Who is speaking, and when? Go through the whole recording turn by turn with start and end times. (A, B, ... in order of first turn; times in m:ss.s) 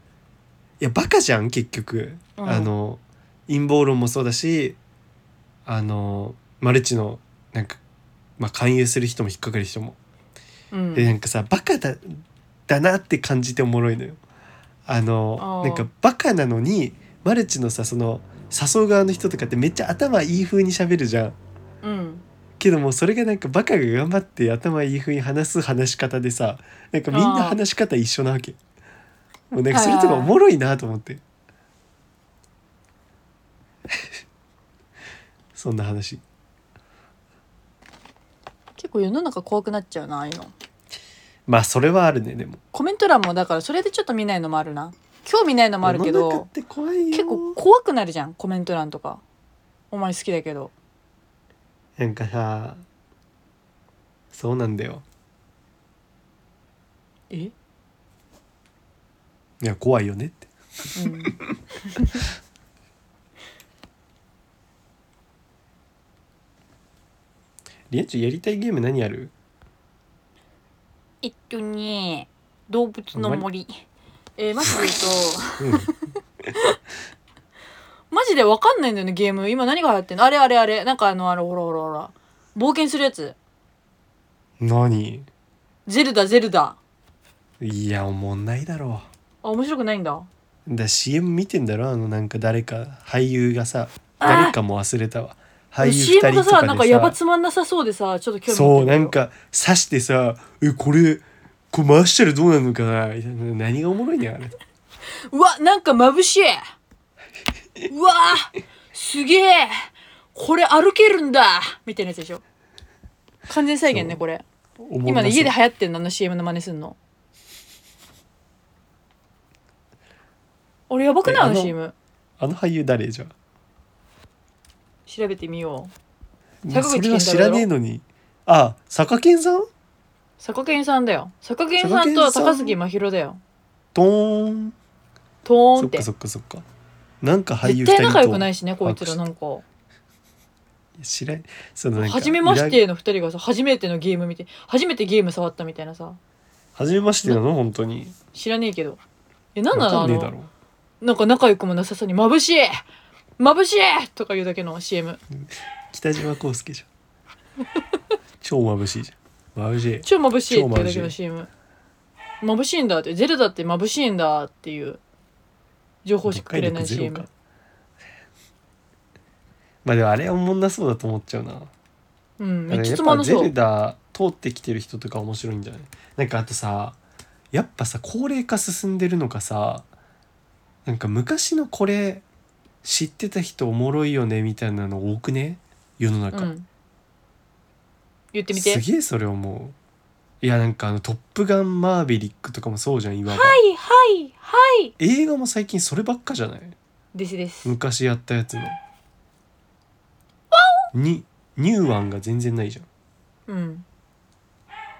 0:00.8-0:04.8 A
0:02.4-0:02.7 B
0:05.6-0:07.8 A
0:08.4-0:10.0 A
0:10.7-0:11.1 B
0:10.9-0:14.2 A
0:14.8-0:21.4 A
0:15.4-0:15.9 B
0:21.8-0:22.2 B
0:22.6-0:28.6 A
0:27.1-0:27.6 B
0:29.5-0:31.2 A
0:29.7-0:30.3 B
0:35.5-0:36.2 A
0:38.8-0:40.5 B
0:41.5-0:42.6 A
0:42.7-0:46.5 B
0:45.8-0:47.6 A
0:47.1-0:49.2 B
0:49.9-0:50.7 B
0:52.0-0:52.8 A
0:54.3-0:55.0 A
0:59.6-1:00.5 A
1:01.0-1:02.2 B
1:01.0-1:01.3 A
1:07.9-1:09.3 A
1:11.2-1:13.8 B
1:13.1-1:13.4 A
1:14.4-1:15.9 B
1:15.6-1:15.9 A
1:18.1-1:23.4 B
1:24.6-1:25.3 A
1:25.9-1:26.8 B
1:27.6-1:29.1 A
1:29.4-1:30.3 B
1:30.7-1:37.2 A
1:34.2-1:34.5 B
1:35.8-1:39.1 B
1:38.5-1:44.6 A
1:45.3-1:46.7 B
1:47.9-1:52.4 B
1:53.5-1:54.4 B
1:53.9-1:54.2 A
1:54.8-1:55.5 A
1:55.0-1:57.0 B
2:00.9-2:01.9 B
2:01.2-2:01.7 A
2:02.4-2:03.3 A
2:05.1-2:05.9 B
2:06.6-2:09.7 A
2:06.7-2:07.7 B
2:10.4-2:13.4 B
2:11.8-2:12.8 A
2:13.9-2:14.7 A
2:15.4-2:16.1 B
2:15.8-2:16.6 A
2:17.2-2:19.2 A
2:17.6-2:19.6 B
2:21.0-2:22.8 A
2:22.0-2:26.2 B
2:26.8-2:28.2 A
2:28.3-2:29.0 B
2:29.5-2:30.3 B
2:29.7-2:30.5 A
2:31.0-2:32.8 B
2:33.4-2:35.2 B
2:35.4-2:36.9 A
2:38.4-2:41.1 A
2:40.0-2:41.5 B
2:42.4-2:45.0 B
2:46.0-2:47.2 B
2:46.3-2:47.3 A
2:49.8-2:51.7 A
2:52.4-2:53.5 B
2:52.7-2:57.0 A
2:57.5-2:59.9 A
3:00.8-3:02.2 A
3:02.8-3:06.5 A
3:06.3-3:06.7 B
3:08.3-3:08.8 B
3:08.5-3:09.8 A
3:10.4-3:13.6 A
3:13.3-3:14.9 B
3:15.0-3:16.8 A
3:17.1-3:17.7 B
3:17.6-3:18.8 A
3:20.5-3:20.8 B
3:20.9-3:22.9 A
3:23.5-3:23.8 B